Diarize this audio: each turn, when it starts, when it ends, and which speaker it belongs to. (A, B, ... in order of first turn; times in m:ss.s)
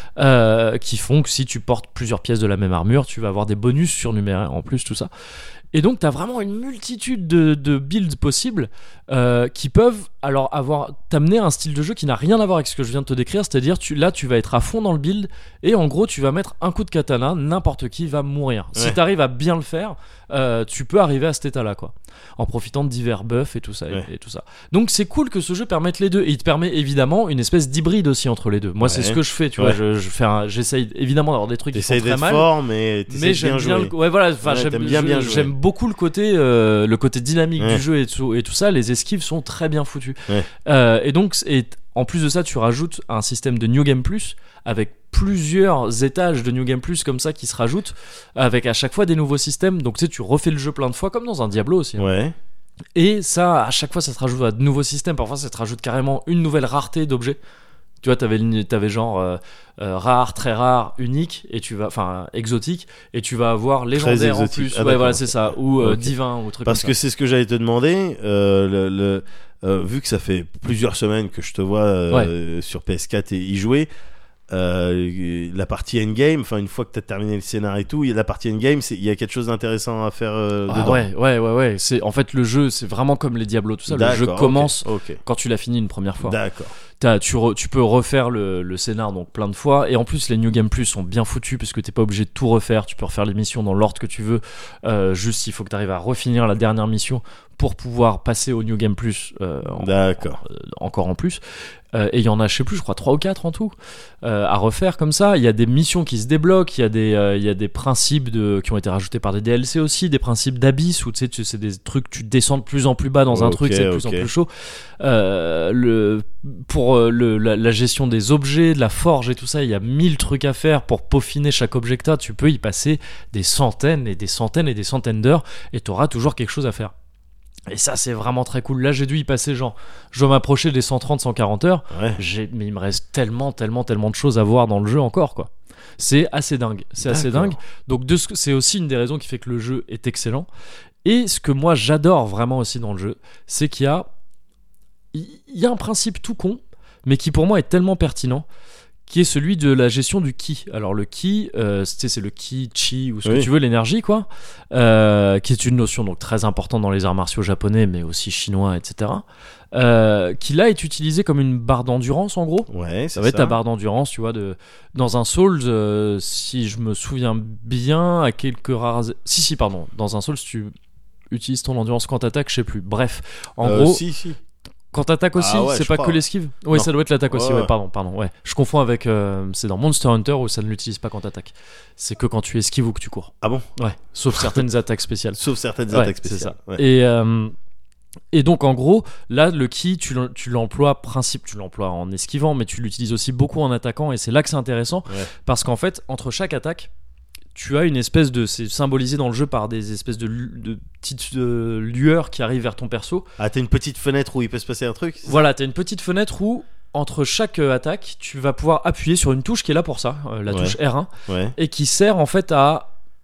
0:00.2-0:05.1 A
0:05.7-0:32.5 A
0:28.8-0:29.8 B
0:31.7-0:35.5 B
0:33.1-0:52.1 A
0:52.0-0:52.3 B
0:52.9-0:57.4 A
0:58.0-1:06.9 A
1:03.9-1:13.9 B
1:14.5-1:21.1 B
1:20.7-1:26.4 A
1:23.9-1:25.2 B
1:26.2-1:26.7 B
1:27.0-1:39.9 A
1:39.7-1:40.4 B
1:40.4-1:41.4 A
1:41.9-1:54.5 A
1:53.3-1:54.3 B
1:55.0-2:06.9 A
2:07.7-2:20.5 A
2:11.9-2:12.2 B
2:17.0-2:17.6 B
2:21.0-2:24.1 A
2:25.1-2:28.4 A
2:29.1-2:50.7 A
2:42.7-2:43.5 B
2:51.3-2:54.0 A
2:53.6-2:54.4 B
2:54.9-3:07.5 A
2:55.3-2:56.2 B
2:56.7-2:57.7 B
3:03.4-3:03.7 B
3:04.3-3:04.6 B
3:05.4-3:06.8 B
3:08.3-3:16.9 A
3:17.5-3:23.3 A
3:23.4-3:25.4 B
3:25.2-3:32.9 A
3:30.5-3:31.5 B